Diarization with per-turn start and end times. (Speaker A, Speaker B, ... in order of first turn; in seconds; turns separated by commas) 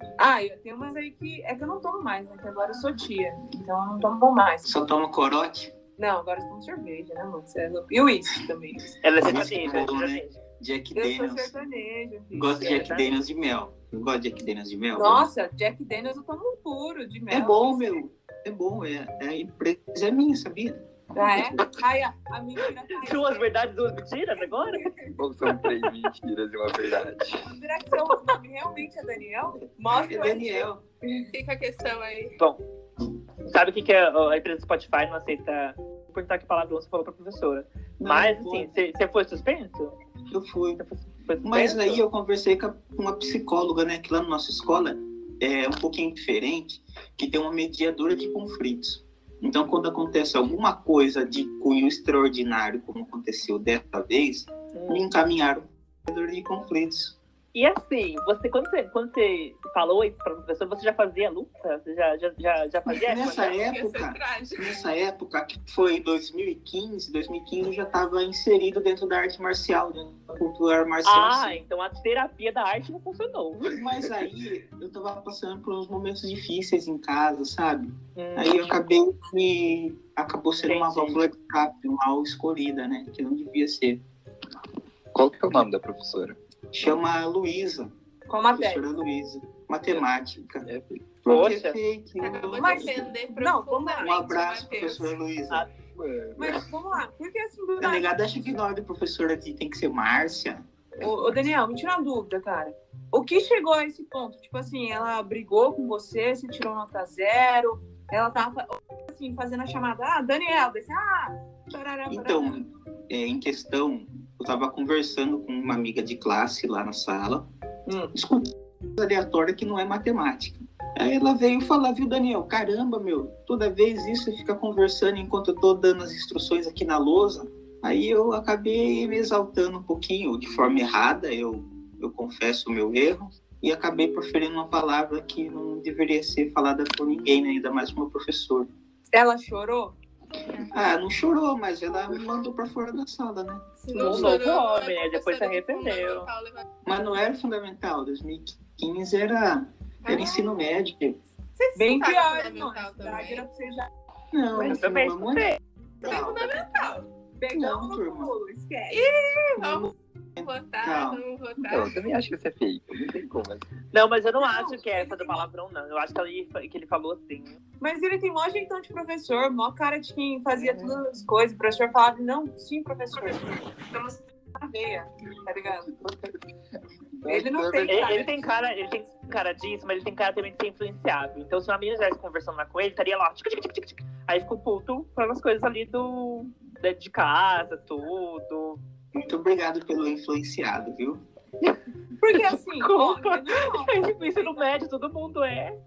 Speaker A: 0.2-4.7, Speaker B: 4.6-5.7, Speaker A: 6.0-9.0, Speaker C: 9.0-10.3, Speaker B: 9.2-11.5, Speaker A: 10.9-13.0, Speaker B: 12.3-15.3, Speaker C: 12.7-13.0, Speaker A: 14.9-18.0, Speaker B: 17.3-21.6, Speaker A: 21.1-23.5, Speaker C: 23.0-24.9, Speaker D: 25.1-27.5, Speaker A: 27.5-31.3, Speaker B: 29.9-30.8, Speaker E: 31.3-32.3, Speaker C: 33.5-40.0, Speaker B: 38.0-38.7, Speaker B: 40.3-40.8, Speaker C: 40.8-42.0, Speaker B: 41.4-57.1, Speaker C: 54.7-55.0, Speaker C: 57.5-63.5, Speaker B: 63.0-71.6, Speaker E: 63.2-64.7, Speaker C: 71.0-73.8, Speaker B: 73.7-84.0, Speaker C: 78.2-78.8, Speaker C: 80.6-81.2, Speaker D: 85.1-86.4, Speaker B: 86.7-87.9, Speaker A: 88.3-88.8, Speaker B: 88.5-90.7, Speaker D: 90.6-91.0, Speaker B: 91.2-93.1, Speaker C: 91.2-91.8, Speaker E: 92.2-95.2, Speaker A: 92.5-94.2, Speaker B: 94.0-95.7, Speaker D: 95.9-96.7, Speaker A: 96.4-98.1, Speaker B: 97.8-100.6, Speaker A: 101.0-112.5, Speaker B: 112.1-117.5, Speaker A: 117.9-118.1, Speaker B: 118.1-138.7, Speaker A: 139.1-139.9, Speaker B: 140.7-144.4, Speaker E: 143.8-146.6, Speaker C: 143.9-146.3, Speaker B: 146.8-151.2, Speaker E: 150.0-150.6, Speaker E: 151.5-153.4, Speaker A: 151.7-153.9, Speaker B: 154.3-156.7, Speaker C: 154.6-155.6, Speaker E: 156.0-157.1, Speaker A: 157.4-159.1, Speaker B: 157.5-158.3, Speaker E: 158.9-161.9, Speaker B: 159.6-161.2, Speaker D: 161.6-163.7, Speaker C: 163.9-167.6, Speaker A: 164.4-165.4, Speaker A: 167.8-175.9, Speaker D: 175.9-176.3, Speaker D: 177.2-178.3, Speaker A: 177.3-178.3, Speaker C: 177.9-188.8, Speaker B: 189.1-191.2, Speaker A: 192.2-194.7, Speaker C: 192.8-195.8